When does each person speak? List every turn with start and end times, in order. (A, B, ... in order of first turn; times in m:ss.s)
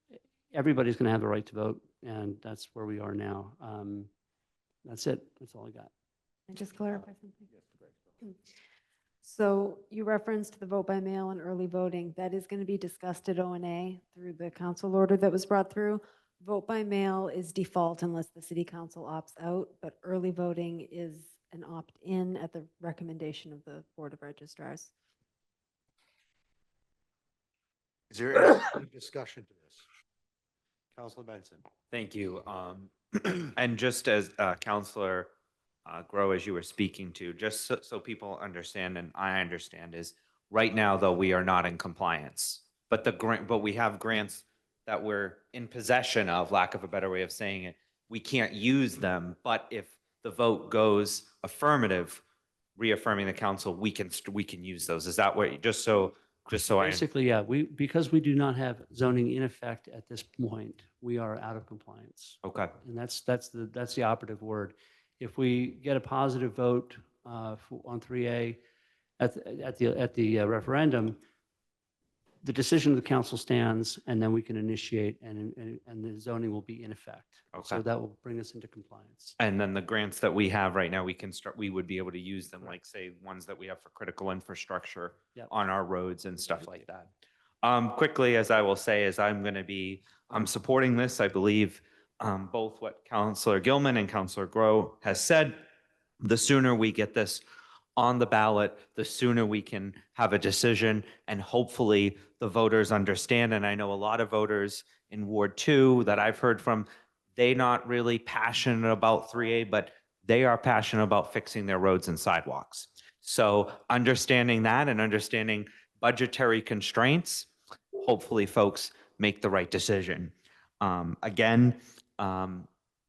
0:00.5-0:04.1 A
0:04.8-0:05.9 A
0:06.5-0:07.5 B
0:09.2-0:24.9 B
0:28.1-0:29.8 C
0:30.9-0:31.6 C
0:31.9-0:35.3 D
0:35.8-0:52.2 D
0:52.8-0:57.1 D
0:56.8-1:08.6 A
1:02.4-1:02.7 D
1:09.2-1:11.2 A
1:12.4-1:19.4 A
1:17.5-1:17.8 D
1:19.4-1:27.1 D
1:27.6-1:35.6 D
1:36.2-1:37.4 D
1:38.0-2:02.7 D